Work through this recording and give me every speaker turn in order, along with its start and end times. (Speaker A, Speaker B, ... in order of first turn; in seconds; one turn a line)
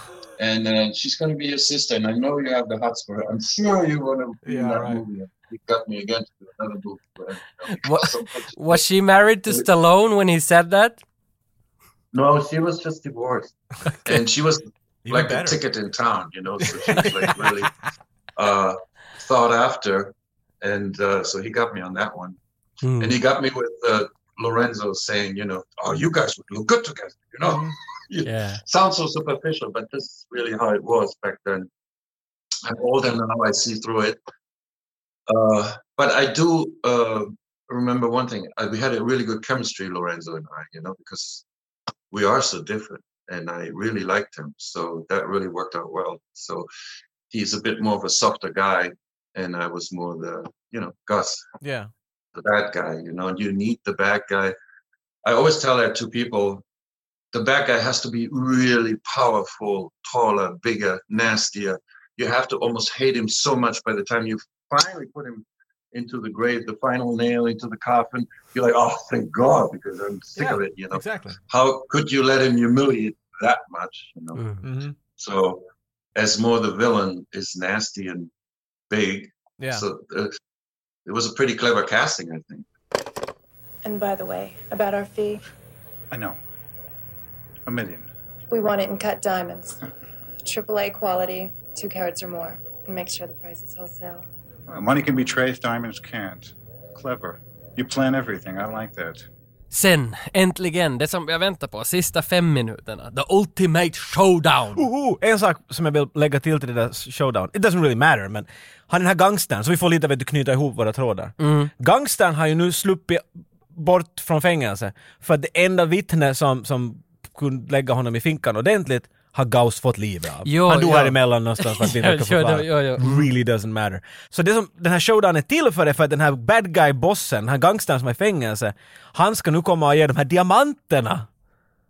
Speaker A: 0.4-8.8
Speaker B: 4.4-5.0
Speaker C: 7.7-11.0
Speaker A: 12.1-13.5
Speaker A: 14.0-17.7
Speaker B: 15.0-15.6
Speaker B: 16.8-17.4
Speaker A: 18.4-22.4
Speaker A: 23.0-31.7
Speaker C: 28.2-28.6
Speaker A: 32.6-34.2
Speaker A: 35.3-41.4
Speaker A: 42.1-46.7
Speaker A: 47.3-51.4
Speaker B: 51.6-51.9
Speaker A: 52.3-54.5
Speaker A: 55.2-56.6
Speaker A: 57.3-74.5
Speaker B: 70.4-71.4
Speaker B: 74.3-74.9
Speaker A: 75.1-75.6
Speaker A: 76.2-78.3
Speaker A: 78.9-80.3
Speaker A: 81.0-82.7
Speaker D: 83.8-85.4
Speaker E: 86.1-86.4
Speaker E: 87.7-88.1
Speaker D: 88.5-89.8
Speaker D: 90.4-94.2
Speaker E: 94.7-99.2
Speaker C: 99.7-104.8
Speaker B: 104.7-131.3
Speaker C: 111.4-111.7
Speaker C: 120.5-123.3